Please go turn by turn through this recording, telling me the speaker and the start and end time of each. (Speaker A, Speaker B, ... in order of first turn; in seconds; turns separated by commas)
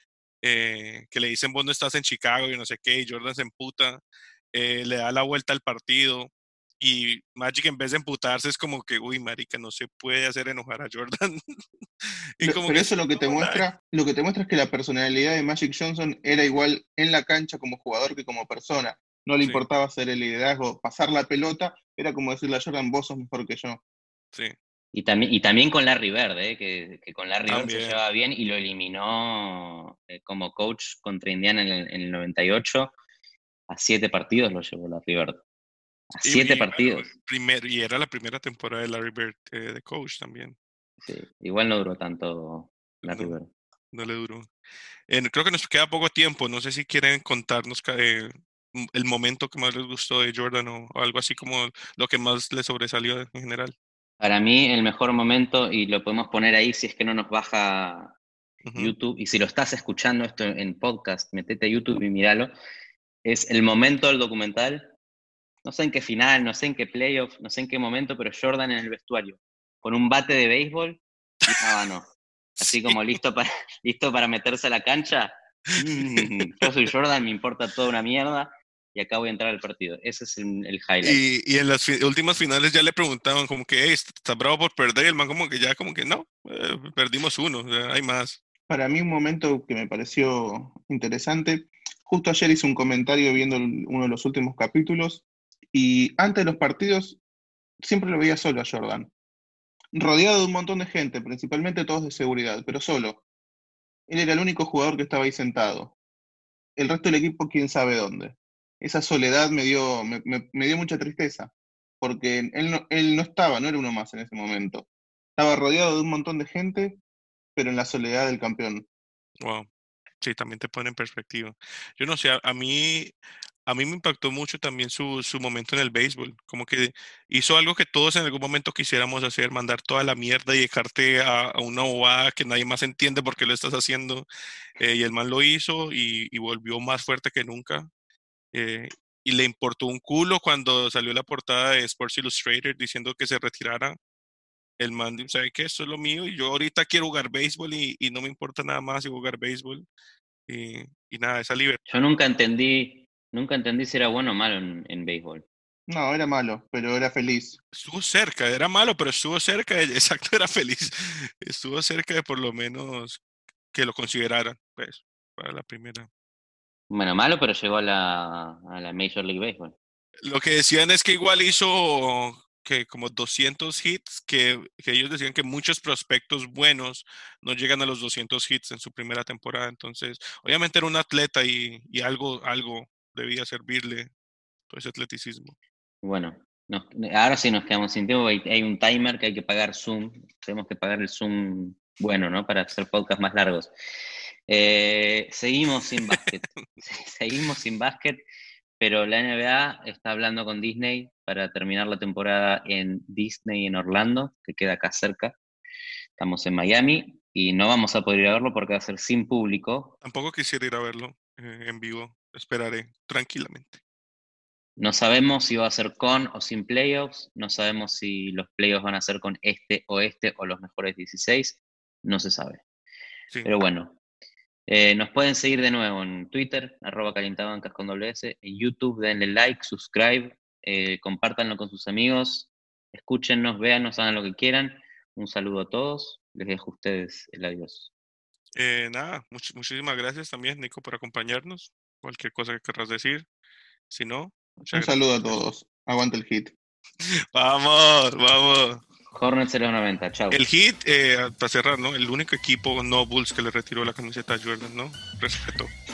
Speaker A: 0.4-4.0, Speaker A: 4.5-13.7, Speaker B: 12.4-23.8, Speaker C: 24.9-32.9, Speaker A: 27.5-28.0, Speaker C: 33.7-35.4, Speaker C: 36.1-37.1, Speaker A: 36.2-40.5, Speaker C: 41.0-43.5, Speaker A: 43.0-43.3, Speaker A: 43.9-44.5, Speaker A: 45.1-53.7, Speaker C: 54.2-58.1, Speaker A: 58.6-58.9, Speaker C: 58.8-62.5, Speaker C: 63.2-64.9, Speaker C: 65.6-72.1, Speaker A: 71.4-71.8, Speaker A: 72.6-73.2, Speaker C: 72.6-81.2, Speaker A: 76.0-76.7, Speaker A: 81.0-88.4, Speaker B: 88.7-97.2, Speaker B: 97.8-99.1, Speaker B: 99.9-103.2, Speaker B: 104.1-105.9, Speaker B: 106.8-117.0, Speaker B: 117.5-118.8, Speaker A: 119.4-119.7, Speaker A: 120.2-123.1, Speaker A: 123.7-134.2, Speaker A: 134.8-137.9, Speaker A: 138.5-144.0, Speaker A: 144.8-149.8, Speaker A: 150.5-151.8, Speaker C: 151.9-155.4, Speaker B: 155.9-157.6, Speaker A: 157.7-163.2, Speaker A: 163.7-166.1, Speaker C: 166.9-169.7, Speaker A: 170.2-184.1, Speaker A: 184.7-185.5, Speaker C: 186.0-193.7, Speaker C: 194.5-198.2, Speaker A: 196.0-196.6, Speaker C: 198.8-205.3, Speaker C: 206.2-209.9, Speaker A: 210.0-213.8, Speaker C: 214.8-222.6, Speaker C: 223.4-224.0, Speaker C: 224.7-237.9, Speaker A: 238.6-243.2, Speaker A: 243.9-245.3, Speaker B: 244.7-246.5, Speaker A: 247.0-248.8, Speaker C: 249.1-250.4, Speaker A: 250.3-255.7